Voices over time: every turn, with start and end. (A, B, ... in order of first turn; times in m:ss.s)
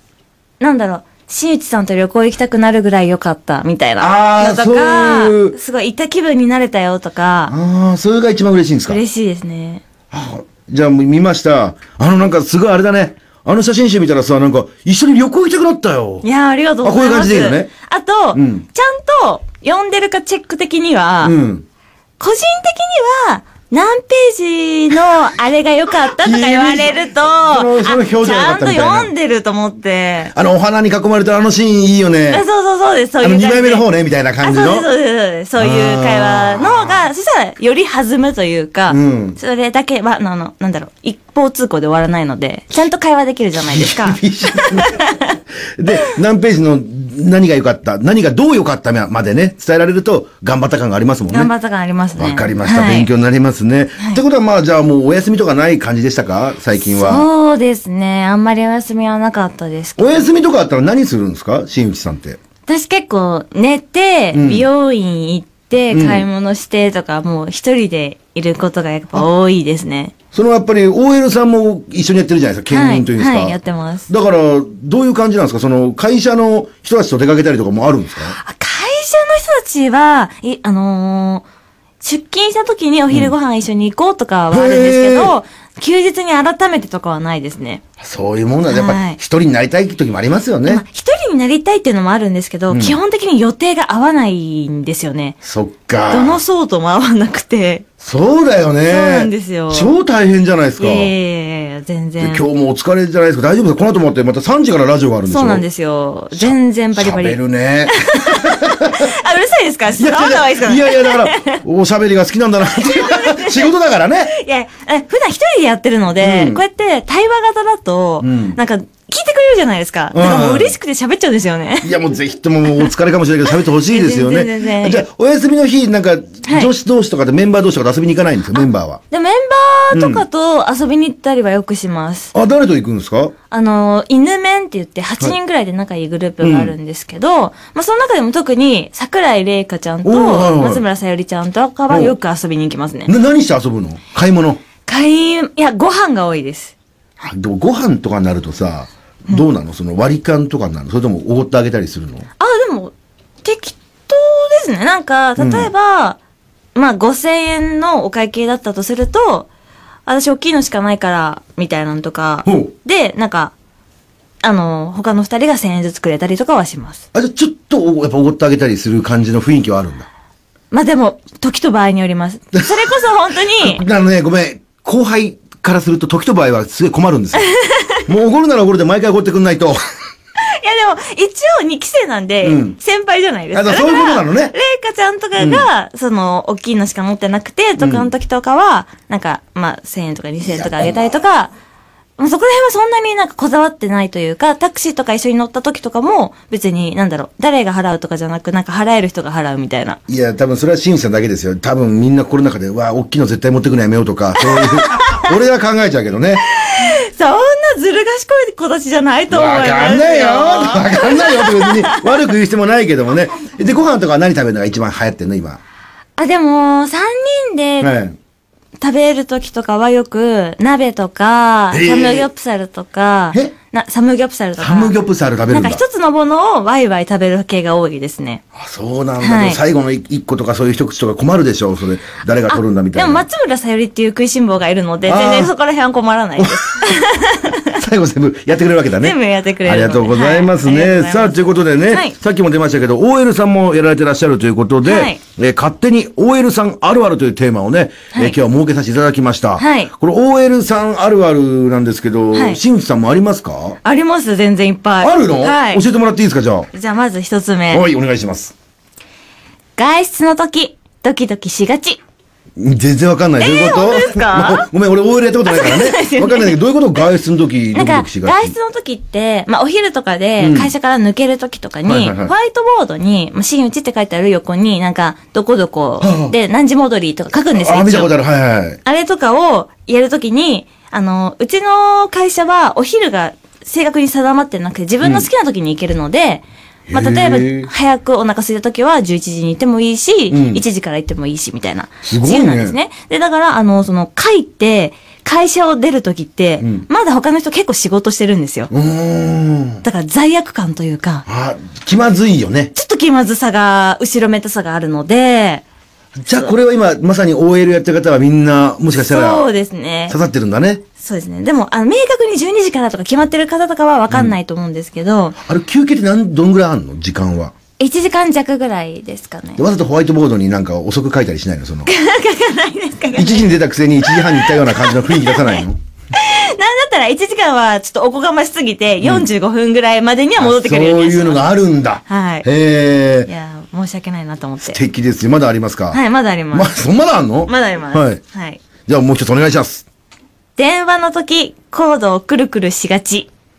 0:00.6-0:07.5 A
0:04.0-0:05.6 B
0:07.5-0:09.0 B
0:08.9-0:09.8 A
0:10.1-0:16.2 B
0:16.2-0:21.4 A
0:16.8-0:17.7 B
0:18.3-0:18.6 B
0:21.2-0:21.6 B
0:22.2-0:30.3 A
0:26.1-0:29.1 B
0:30.3-0:32.4 B
0:32.3-0:33.8 A
0:33.2-0:34.9 B
0:34.4-0:45.4 A
0:35.6-0:37.0 B
0:38.9-0:39.4 B
0:43.6-0:45.0 B
0:45.8-0:51.5 B
0:51.3-0:53.1 A
0:52.2-0:57.2 B
0:56.8-1:00.3 A
1:00.0-1:02.4 B
1:02.7-1:10.1 A
1:04.3-1:04.7 B
1:05.9-1:06.2 B
1:10.3-1:13.6 B
1:12.7-1:14.1 A
1:14.1-1:18.4 B
1:18.4-1:21.4 A
1:22.0-1:27.8 A
1:24.5-1:25.4 B
1:28.0-1:30.8 B
1:28.7-1:29.2 A
1:30.6-1:35.4 A
1:32.7-1:33.0 B
1:35.4-1:36.4 B
1:36.1-1:37.8 A
1:38.0-1:41.1 B
1:38.9-1:39.9 A
1:40.8-1:42.4 A
1:42.2-1:45.6 B
1:45.3-1:47.4 A
1:46.3-1:49.1 B
1:48.0-1:51.6 A
1:50.0-1:54.3 B
1:52.8-1:53.7 A
1:54.3-2:02.0 A
1:56.2-1:56.6 B
1:58.2-1:58.6 B
2:00.1-2:00.7 B
2:01.8-2:09.0 B
2:03.8-2:05.0 A
2:06.4-2:06.7 A
2:09.1-2:12.3 A
2:09.9-2:10.2 B
2:12.3-2:13.3 B
2:13.5-2:23.1 A
2:16.4-2:16.7 B
2:20.0-2:20.8 B
2:21.9-2:22.1 B
2:23.1-2:24.6 B
2:24.8-2:26.7 A
2:27.2-2:32.2 B
2:32.4-2:36.2 A
2:35.4-2:35.7 B
2:36.7-2:39.5 A
2:40.0-2:43.5 A
2:42.4-2:42.7 B
2:44.4-2:47.0 A
2:47.1-2:50.1 B
2:50.7-2:53.8 A
2:52.5-2:52.8 B
2:53.6-2:57.5 B
2:57.4-2:58.0 A
2:58.0-2:59.8 B
3:00.4-3:11.5 A
3:02.4-3:02.8 B
3:03.5-3:04.5 B
3:05.4-3:05.6 B
3:07.8-3:08.1 B
3:10.4-3:11.2 B
3:12.2-3:20.0 A
3:20.1-3:26.4 B
3:24.4-3:25.3 A
3:26.5-3:32.0 A
3:29.3-3:35.6 B
3:36.2-3:37.9 A
3:37.8-3:38.2 B
3:38.8-3:45.0 A
3:41.7-3:42.3 B
3:44.6-3:45.8 B
3:45.5-3:48.4 A
3:48.5-3:53.2 B
3:49.2-3:49.6 A
3:52.5-3:57.8 A
3:55.0-3:55.5 B
3:56.4-3:56.8 B
3:57.7-4:13.8 B
3:59.0-4:02.1 A
4:04.8-4:05.2 A
4:09.6-4:09.9 A
4:12.3-4:12.6 A
4:13.8-4:15.8 A
4:15.0-4:16.7 B
4:16.7-4:17.8 A
4:17.7-4:18.5 B
4:19.8-4:22.0 A
4:22.6-4:28.5 B
4:23.4-4:24.7 A
4:25.4-4:26.6 A
4:27.7-4:38.1 A
4:30.4-4:30.7 B
4:31.8-4:32.3 B
4:36.0-4:36.3 B
4:37.5-4:38.8 B
4:38.8-4:58.7 A
4:45.0-4:45.3 B
4:46.9-4:47.7 B
4:50.3-4:50.6 B
4:52.0-4:52.8 B
4:58.7-4:59.8 B
4:59.8-5:01.2 A
5:01.3-5:02.7 B
5:02.7-5:05.6 A
5:06.2-5:09.5 B
5:09.0-5:10.2 A
5:10.1-5:10.8 B
5:11.0-5:15.4 A
5:15.4-5:17.5 B
5:17.8-5:19.6 A
5:19.6-5:21.9 B
5:21.8-5:25.6 A
5:23.1-5:25.8 B
5:26.1-5:31.5 A
5:30.4-5:33.3 B
5:32.1-5:32.5 A
5:33.2-5:34.8 A
5:34.6-5:36.0 B
5:35.9-5:36.7 A
5:36.5-5:38.2 B
5:37.4-5:38.6 A
5:38.8-5:39.8 B
5:40.6-5:43.3 A